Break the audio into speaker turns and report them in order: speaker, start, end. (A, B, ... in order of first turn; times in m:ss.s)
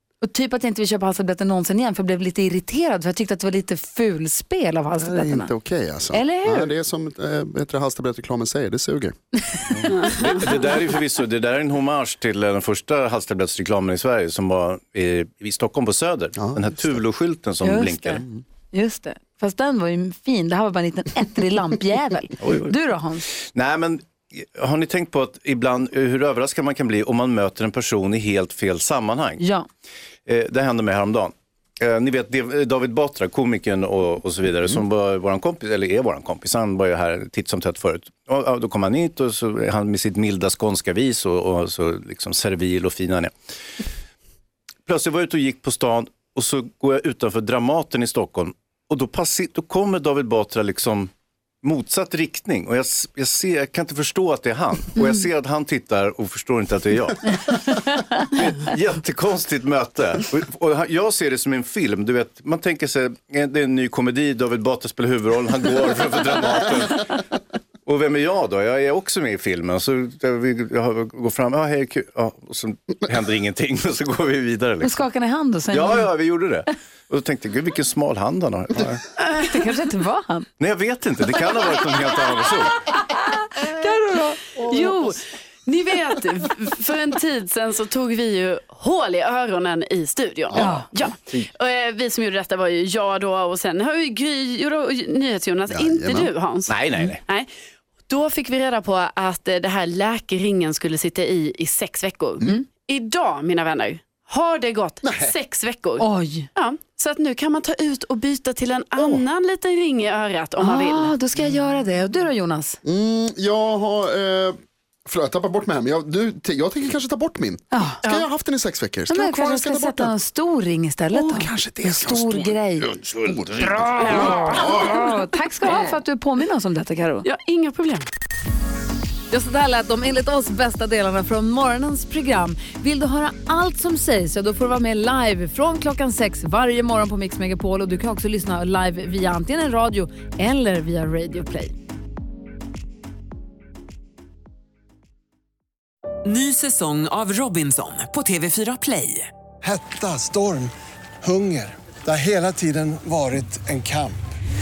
0:00.2-0:05.5 A
0:05.0-0:09.1 B
0:06.1-0:06.7 A
0:09.7-0:18.2 C
0:16.4-0:17.0 B
0:17.6-0:23.2 A
0:22.4-0:22.7 C
0:23.5-0:29.4 C
0:29.4-0:29.6 A
0:30.2-0:43.3 C
0:44.8-0:51.1 C
0:51.6-1:07.2 C
1:07.8-1:15.0 C
1:14.8-1:16.1 A
1:15.7-1:19.0 C
1:19.4-1:20.5 A
1:20.6-1:22.8 C
1:22.9-1:24.9 A
1:24.6-1:37.5 D
1:30.5-1:30.8 A
1:35.7-1:36.3 B
1:36.7-1:37.2 C
1:38.1-1:51.1 D
1:45.0-1:45.3 B
1:46.0-1:46.5 A
1:49.0-1:49.2 B
1:50.6-1:52.8 A
1:52.8-2:00.1 B
1:57.7-1:58.0 A
1:59.1-2:03.0 A
2:01.1-2:02.6 B
2:03.1-2:05.0 B
2:03.9-2:05.0 D
2:04.1-2:07.2 A
2:07.2-2:08.0 D
2:09.3-2:21.7 A
2:26.2-2:29.3 E
2:29.6-2:34.2 F